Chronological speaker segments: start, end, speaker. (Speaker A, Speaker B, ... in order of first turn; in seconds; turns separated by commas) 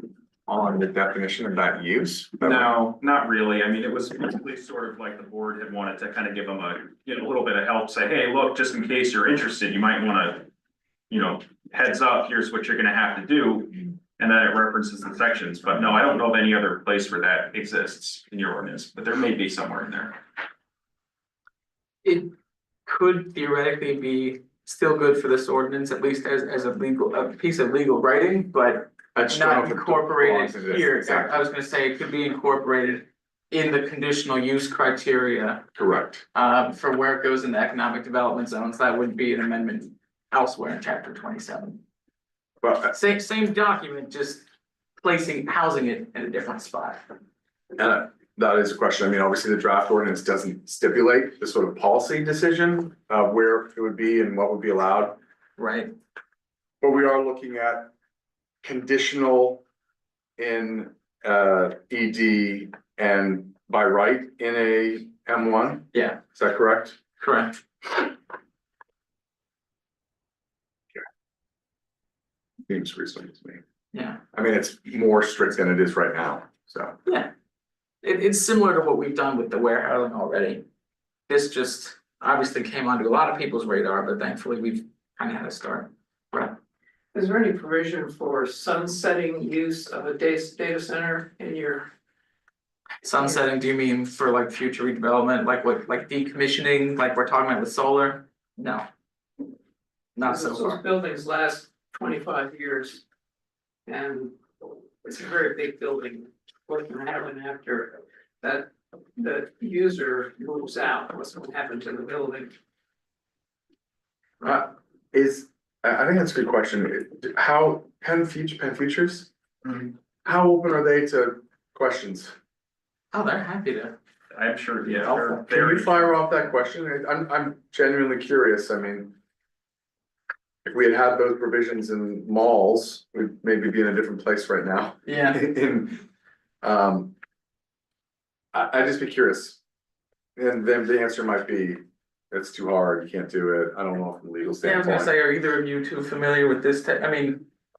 Speaker A: 0.5-2.7, Speaker B: 2.4-10.5, Speaker B: 11.1-20.2, Speaker C: 22.0-22.3, Speaker C: 22.9-35.6, Speaker A: 29.1-31.5, Speaker A: 35.8-36.2, Speaker C: 36.4-41.8, Speaker A: 42.6-43.0, Speaker C: 42.9-44.5, Speaker C: 45.0-47.0, Speaker A: 47.8-55.2, Speaker C: 55.6-55.9, Speaker A: 56.8-57.9, Speaker A: 58.6-59.6, Speaker A: 60.4-67.0, Speaker C: 65.9-66.2, Speaker C: 67.2-67.6, Speaker A: 72.7-73.6, Speaker C: 73.9-74.2, Speaker A: 74.3-77.0, Speaker C: 77.1-77.3, Speaker C: 78.0-80.6, Speaker C: 81.3-86.6, Speaker D: 87.1-91.9, Speaker C: 93.0-98.9, Speaker C: 100.2-100.8, Speaker D: 100.2-103.0, Speaker D: 103.9-112.5, Speaker A: 114.4-122.3, Speaker C: 123.1-124.0, Speaker B: 124.3-126.4, Speaker C: 124.9-125.2, Speaker A: 125.2-129.2, Speaker A: 130.7-136.1, Speaker C: 135.1-135.4, Speaker A: 136.6-137.1, Speaker A: 138.5-139.6, Speaker A: 140.4-145.1, Speaker C: 144.6-147.5